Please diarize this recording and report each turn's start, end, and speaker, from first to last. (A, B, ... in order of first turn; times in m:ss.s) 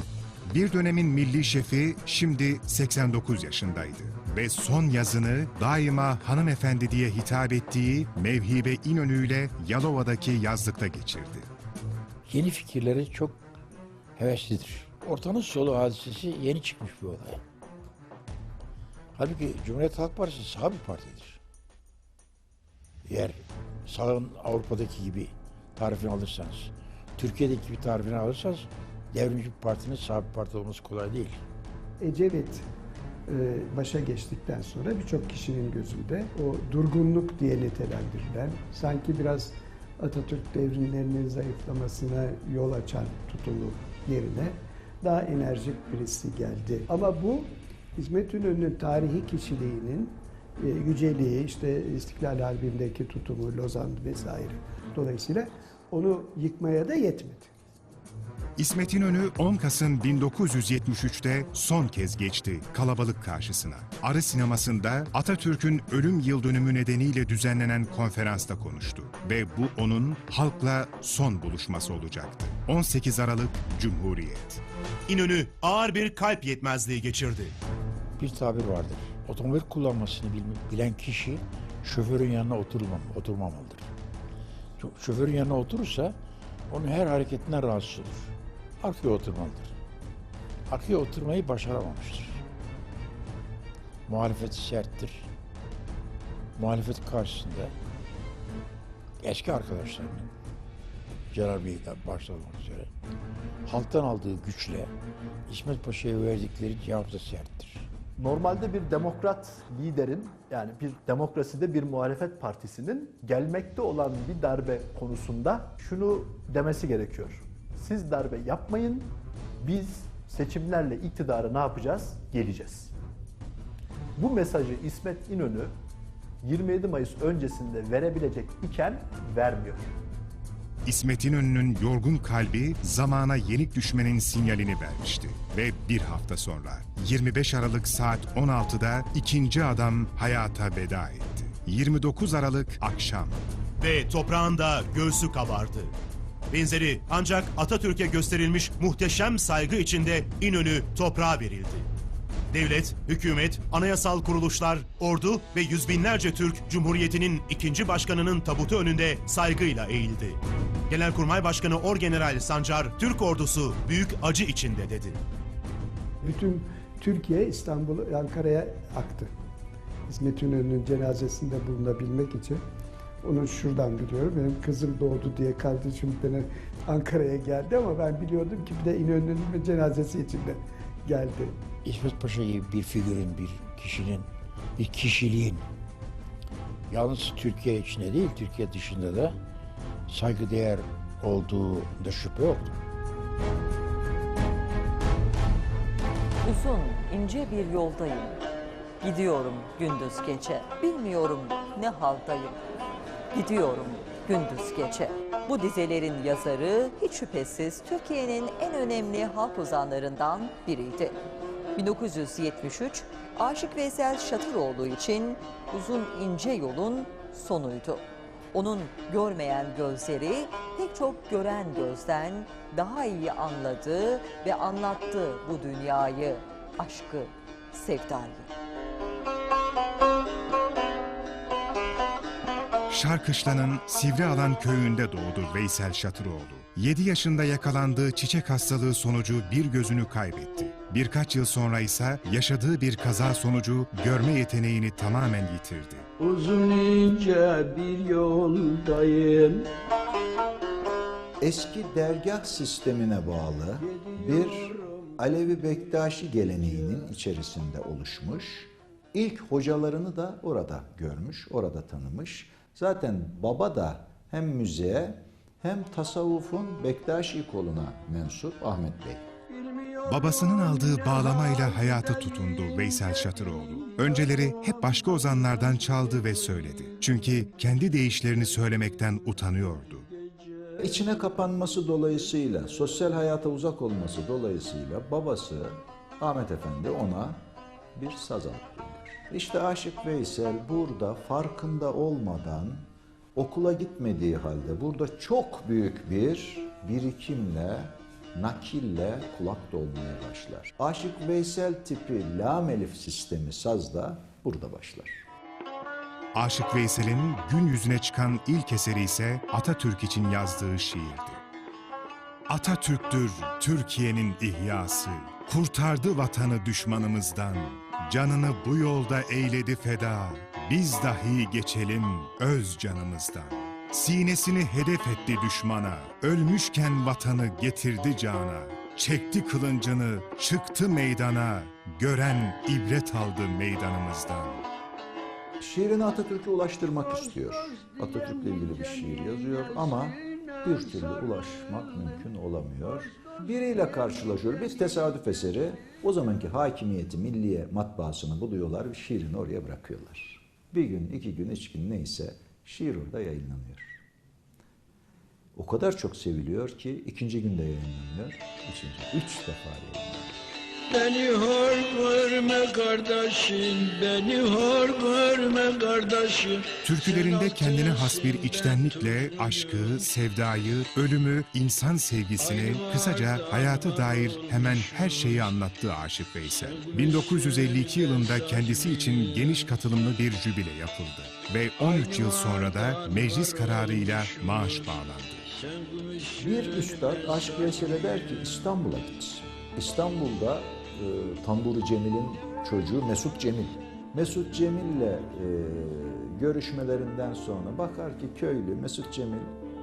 0:00.4-0:11.5 A
0:12.2-0:13.4 B
0:14.2-0:17.4 B
0:19.1-0:21.4 B
0:23.0-0:31.4 B
0:32.0-0:32.6 C
0:33.3-0:57.5 C
0:58.6-1:14.6 A
1:15.1-1:17.6 D
1:18.2-1:23.9 B
1:24.8-1:26.2 B
1:26.7-1:29.7 B
1:30.7-1:32.4 B
1:34.1-1:35.3 B
1:36.6-1:37.7 B
1:39.2-1:40.3 B
1:41.3-1:42.9 B
1:43.6-1:44.9 B
1:45.5-1:47.9 B
1:48.2-2:02.9 E
2:04.2-2:05.8 E
2:06.4-2:09.9 E
2:10.8-2:23.4 A
2:23.8-2:25.9 D
2:26.5-2:31.9 D
2:32.5-2:45.2 D
2:46.2-2:49.3 C
2:50.1-2:52.6 C
2:53.2-3:01.6 C
3:01.8-3:05.7 B
3:06.9-3:09.4 B
3:10.1-3:12.7 B
3:16.4-3:18.4 F
3:19.0-3:22.6 F
3:23.3-3:31.1 F
3:31.8-3:38.0 F
3:38.5-3:48.5 F
3:52.9-4:06.1 A
4:06.2-4:09.7 G
4:11.4-4:29.3 H
4:13.8-4:17.1 G
4:29.5-4:37.8 G
4:30.0-4:40.0 A
4:40.1-4:41.2 G
4:40.8-4:47.4 H
4:42.4-4:43.0 G
4:47.9-5:05.2 H
5:06.3-5:11.4 A
5:12.5-5:34.6 A
5:35.6-5:54.0 H
5:37.1-5:42.2 G
5:55.5-6:00.3 H
6:00.9-6:10.0 G
6:06.8-6:25.4 A
6:12.4-6:15.5 G
6:16.6-6:19.7 G
6:21.8-6:24.9 G
6:25.5-6:28.4 G
6:26.4-6:39.5 H